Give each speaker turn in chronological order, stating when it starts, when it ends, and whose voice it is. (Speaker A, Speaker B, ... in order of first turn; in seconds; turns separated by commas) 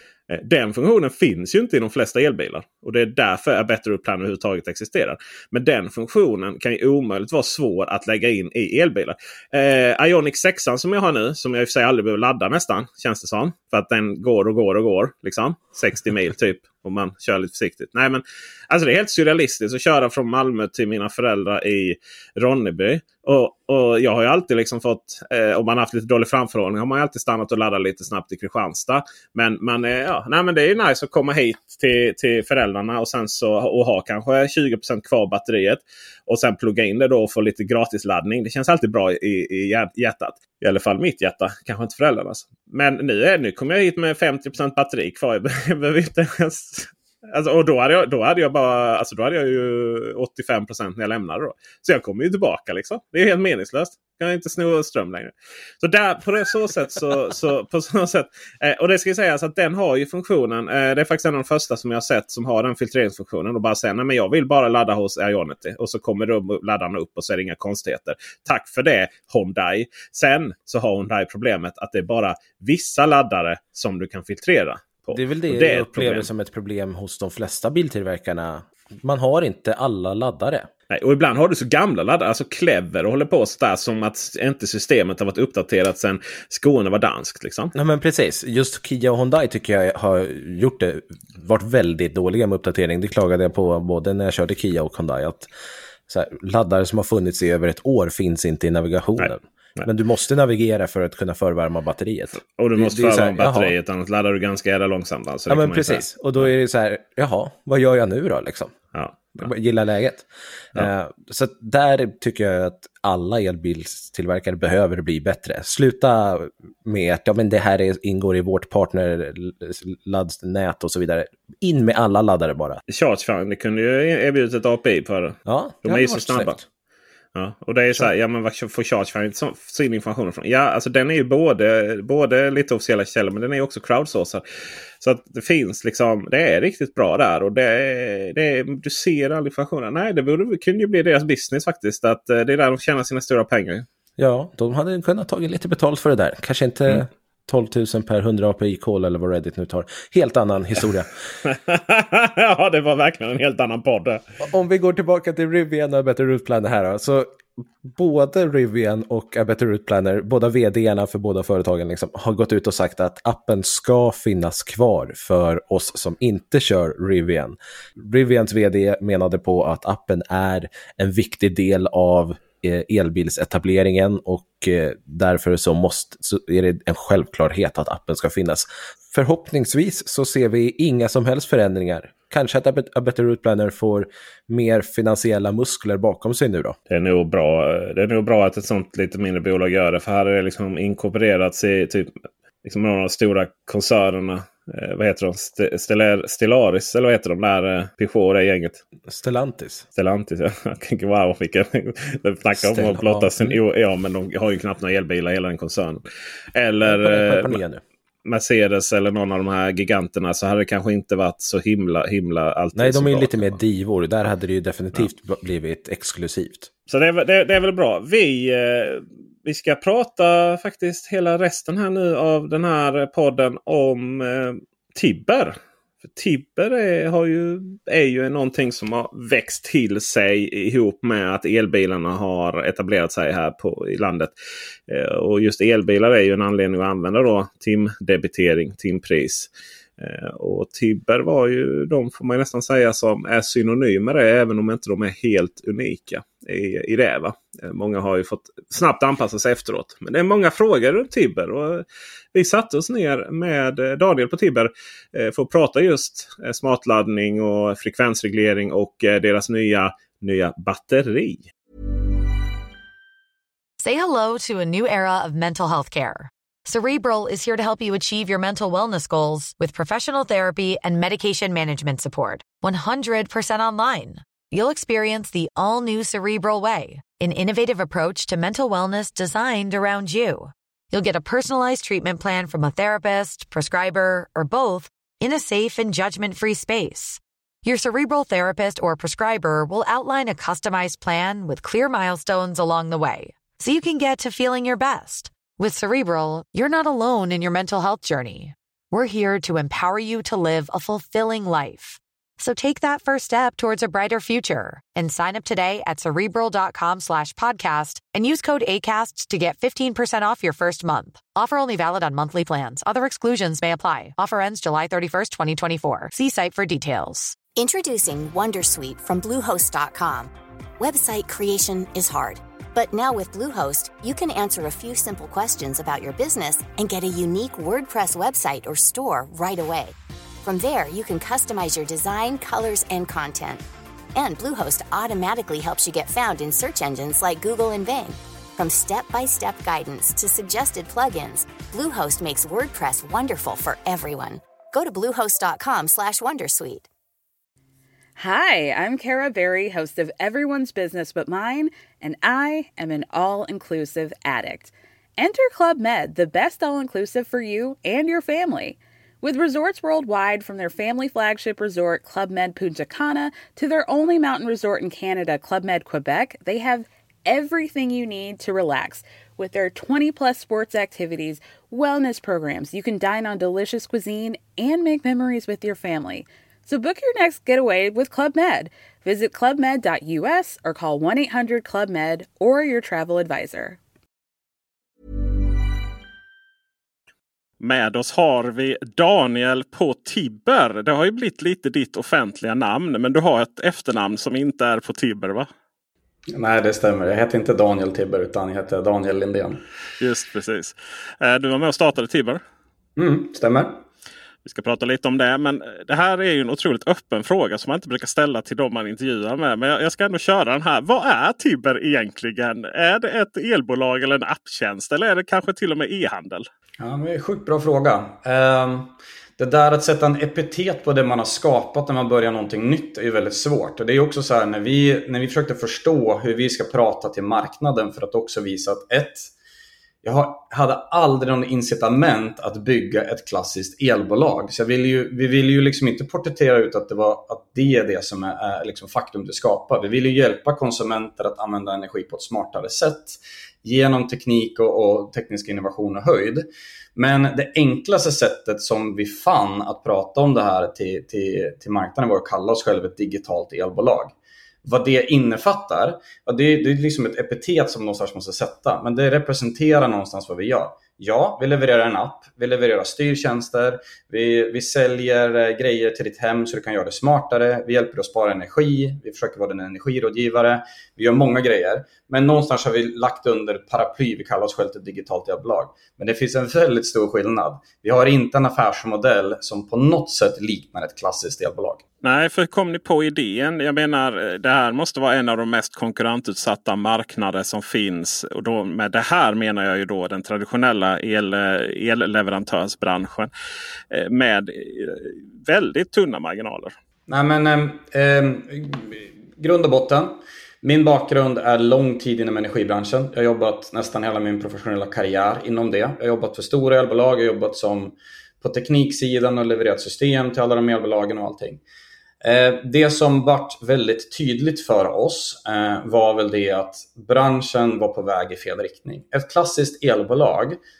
Speaker A: 0.3-76.3, Speaker B: 75.1-80.7, Speaker A: 80.9-87.7, Speaker B: 87.7-95.5, Speaker B: 96.1-103.7, Speaker A: 99.2-99.9, Speaker A: 102.3-106.5, Speaker B: 105.5-108.7, Speaker A: 108.9-109.5, Speaker B: 109.3-122.8, Speaker A: 122.9-126.6, Speaker B: 125.5-126.6, Speaker A: 127.3-134.4, Speaker A: 135.0-143.8, Speaker B: 144.2-151.1, Speaker A: 151.4-154.2, Speaker B: 154.4-186.8, Speaker A: 186.9-192.1, Speaker A: 192.6-198.8, Speaker B: 199.1-199.9, Speaker A: 199.9-207.6, Speaker B: 202.6-203.6, Speaker B: 206.8-207.8, Speaker A: 208.2-213.6, Speaker B: 212.7-216.7, Speaker A: 216.9-234.3, Speaker A: 234.9-261.5, Speaker C: 263.8-317.4, Speaker D: 317.5-333.6, Speaker D: 334.1-346.9, Speaker E: 348.2-383.8, Speaker A: 387.6-395.5, Speaker F: 396.3-399.6, Speaker A: 400.0-402.4, Speaker F: 403.0-403.8, Speaker A: 404.4-416.5, Speaker F: 416.8-429.3, Speaker F: 430.0-454.1, Speaker F: 454.6-481.8, Speaker A: 482.0-493.3, Speaker A: 493.9-496.7, Speaker F: 497.1-511.6, Speaker F: 512.2-520.6